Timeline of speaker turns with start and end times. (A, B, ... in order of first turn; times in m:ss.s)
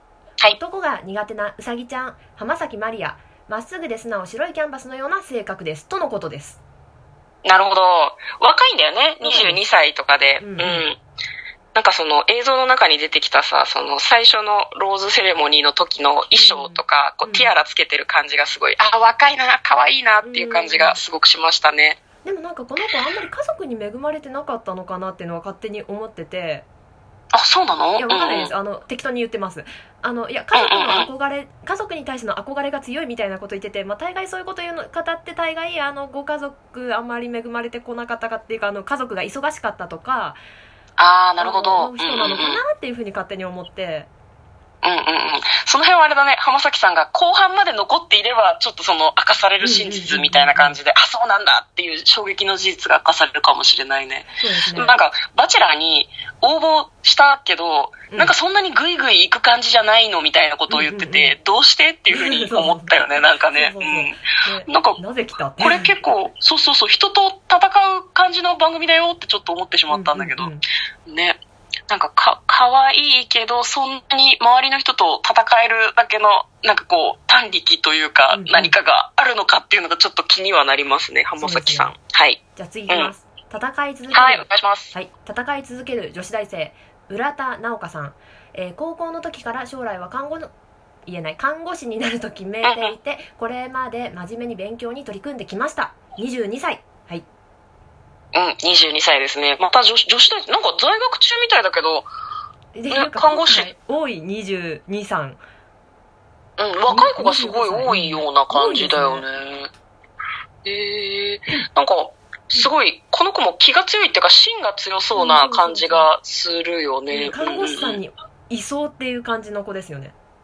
0:00.5-0:06.6 A
0:07.4-0:11.0 B
0:09.2-0:09.6 A
0:10.4-0:10.8 A
0:11.8-0:22.0 B
0:16.3-0:17.5 A
0:20.2-0:21.0 A
0:22.2-0:26.7 A
0:27.3-0:28.5 B
0:28.0-0:40.4 A
0:30.5-0:31.1 B
0:41.0-0:42.6 B
0:41.4-0:44.1 A
0:44.8-1:05.0 B
0:49.6-0:50.8 A
0:54.4-0:55.0 A
1:00.7-1:01.4 A
1:02.1-1:03.0 A
1:03.5-1:05.9 A
1:05.6-1:10.5 B
1:09.9-1:10.6 A
1:11.1-1:23.1 B
1:18.3-1:18.7 A
1:21.4-1:21.9 A
1:22.6-1:30.5 A
1:24.1-1:24.9 B
1:31.1-1:37.2 A
1:32.6-1:33.0 B
1:38.3-1:42.1 B
1:42.8-1:45.4 A
1:42.9-1:43.7 B
1:46.6-1:49.7 B
1:46.9-1:49.2 A
1:50.6-1:58.0 B
1:55.2-1:56.1 A
1:57.1-2:00.1 A